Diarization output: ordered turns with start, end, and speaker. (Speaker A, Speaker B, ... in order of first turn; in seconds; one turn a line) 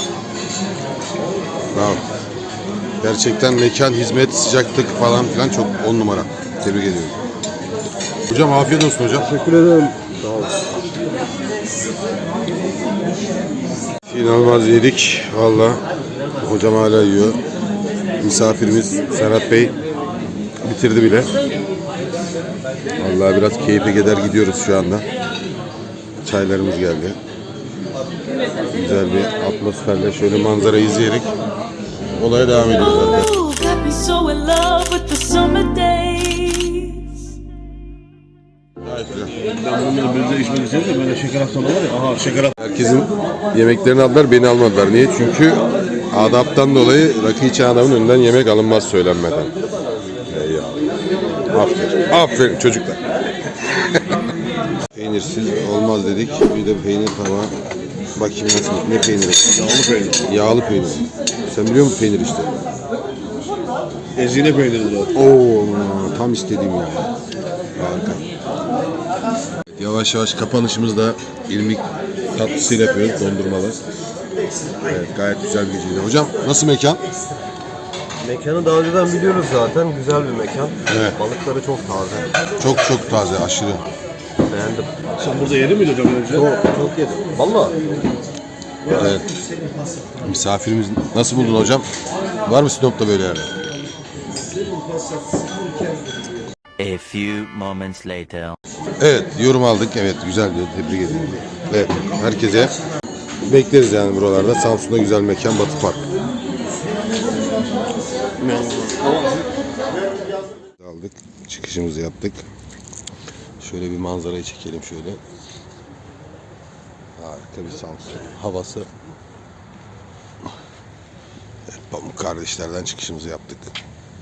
Speaker A: 1.7-2.0
Speaker A: 3.0-7.2
Speaker A: 8.3-9.3
Speaker B: 9.2-10.6
Speaker A: 14.1-15.8
Speaker A: 16.4-17.4
Speaker A: 18.2-19.7
Speaker A: 20.6-21.3
Speaker A: 23.0-25.1
Speaker A: 26.2-27.2
Speaker A: 28.7-31.3
Speaker A: 32.1-33.3
Speaker C: 33.1-37.2
Speaker A: 38.9-39.3
Speaker D: 39.4-42.5
Speaker A: 42.6-49.5
Speaker A: 50.3-50.7
Speaker A: 51.5-53.0
Speaker A: 54.9-57.5
Speaker A: 58.1-62.5
Speaker D: 59.5-60.2
Speaker D: 64.2-65.1
Speaker A: 65.1-67.1
Speaker A: 67.8-68.3
Speaker A: 69.8-73.8
Speaker A: 74.8-77.0
Speaker B: 78.2-82.3
Speaker A: 80.8-81.2
Speaker A: 82.6-83.8
Speaker B: 84.5-84.9
Speaker D: 85.2-86.5
Speaker B: 86.3-88.0
Speaker A: 88.9-89.3
Speaker A: 90.2-91.8
Speaker A: 92.4-93.5
Speaker C: 96.8-98.6
Speaker A: 99.0-102.7
Speaker A: 103.5-106.0
Speaker A: 110.8-112.4
Speaker A: 113.6-115.2
Speaker A: 117.2-118.9
Speaker A: 121.7-123.7